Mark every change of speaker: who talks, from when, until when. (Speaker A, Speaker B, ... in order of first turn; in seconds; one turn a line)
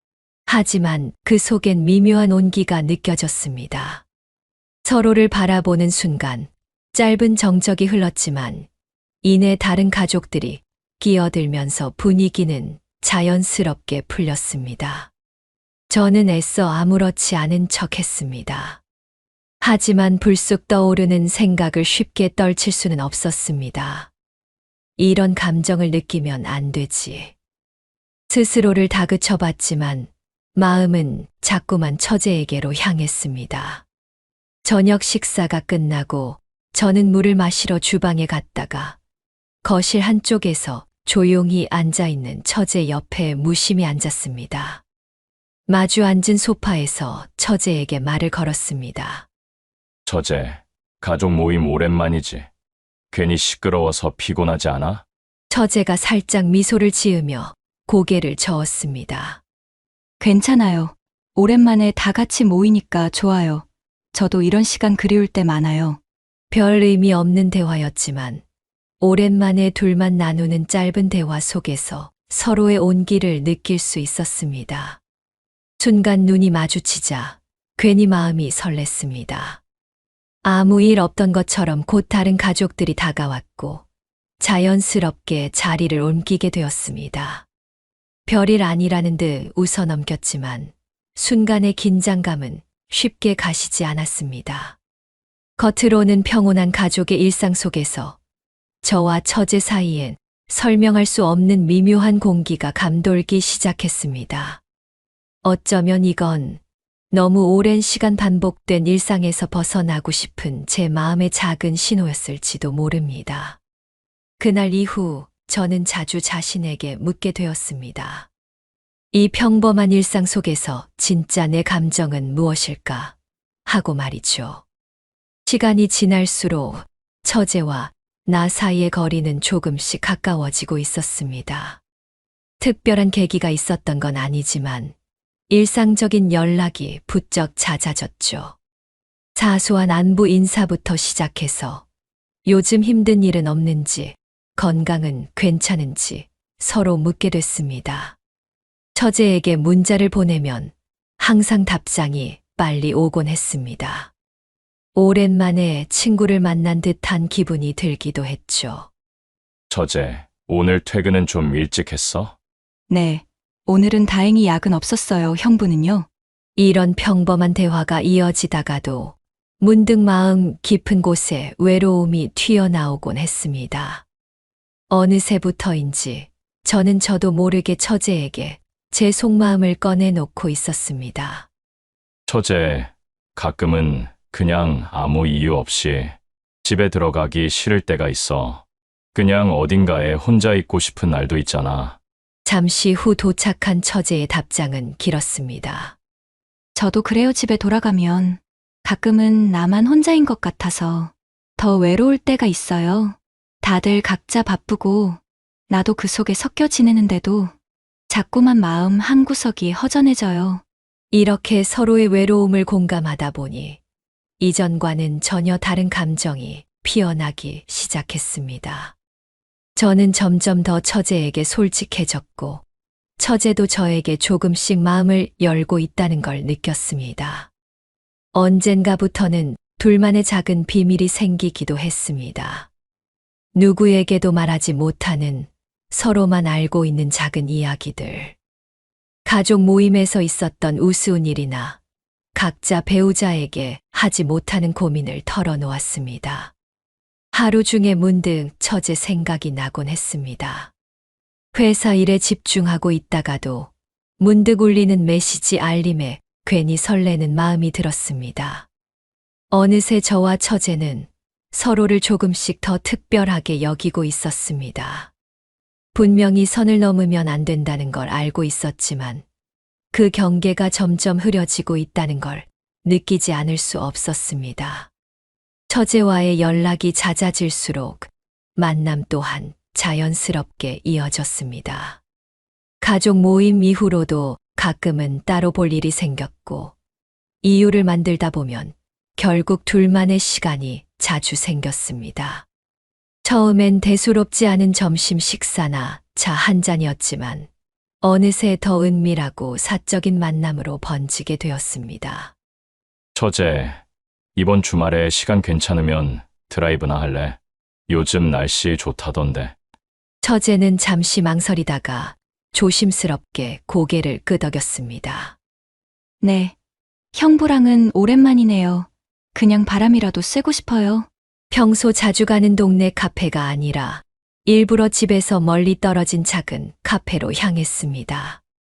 Speaker A: 0.5-4.0
Speaker A: 4.8-8.7
Speaker A: 9.2-15.1
Speaker A: 15.9-18.8
Speaker A: 19.6-24.1
Speaker A: 25.0-27.3
Speaker A: 28.3-33.8
Speaker A: 34.6-39.0
Speaker A: 39.6-44.8
Speaker A: 45.7-49.3
Speaker B: 50.1-52.5
Speaker B: 53.1-55.0
Speaker A: 55.5-59.4
Speaker C: 60.2-66.0
Speaker A: 66.5-68.4
Speaker A: 69.0-75.0
Speaker A: 75.8-79.6
Speaker A: 80.4-83.8
Speaker A: 84.4-87.5
Speaker A: 88.3-94.8
Speaker A: 95.6-98.2
Speaker A: 98.8-104.6
Speaker A: 105.4-106.6
Speaker A: 107.1-113.6
Speaker A: 114.4-118.3
Speaker A: 119.1-123.2
Speaker A: 123.7-124.6
Speaker A: 125.5-131.8
Speaker A: 132.6-134.9
Speaker A: 135.5-138.6
Speaker A: 139.3-141.8
Speaker A: 142.4-148.2
Speaker A: 148.9-154.1
Speaker A: 154.9-158.9
Speaker B: 159.7-162.3
Speaker C: 162.9-166.1
Speaker A: 166.6-174.0
Speaker A: 174.9-181.5
Speaker B: 182.3-188.6
Speaker B: 189.1-192.0
Speaker A: 192.4-196.0
Speaker C: 196.8-207.5
Speaker C: 208.1-210.6
Speaker A: 211.1-213.8
Speaker A: 214.4-218.9
Speaker A: 219.8-222.6
Speaker A: 223.2-227.5
Speaker A: 228.3-232.7
Speaker A: 233.5-238.3
Speaker A: 239.2-241.8
Speaker A: 242.3-246.5
Speaker A: 247.3-250.7
Speaker A: 251.5-258.7
Speaker A: 259.5-265.1
Speaker A: 265.9-269.2
Speaker A: 269.9-274.9
Speaker A: 275.7-282.0
Speaker A: 282.8-286.7
Speaker A: 287.4-292.5
Speaker A: 293.2-297.5
Speaker A: 298.0-302.3
Speaker B: 303.1-303.8
Speaker B: 304.4-307.4
Speaker B: 307.9-309.5
Speaker A: 310.2-315.4
Speaker C: 316.2-316.5
Speaker C: 317.1-321.1
Speaker A: 321.5-328.4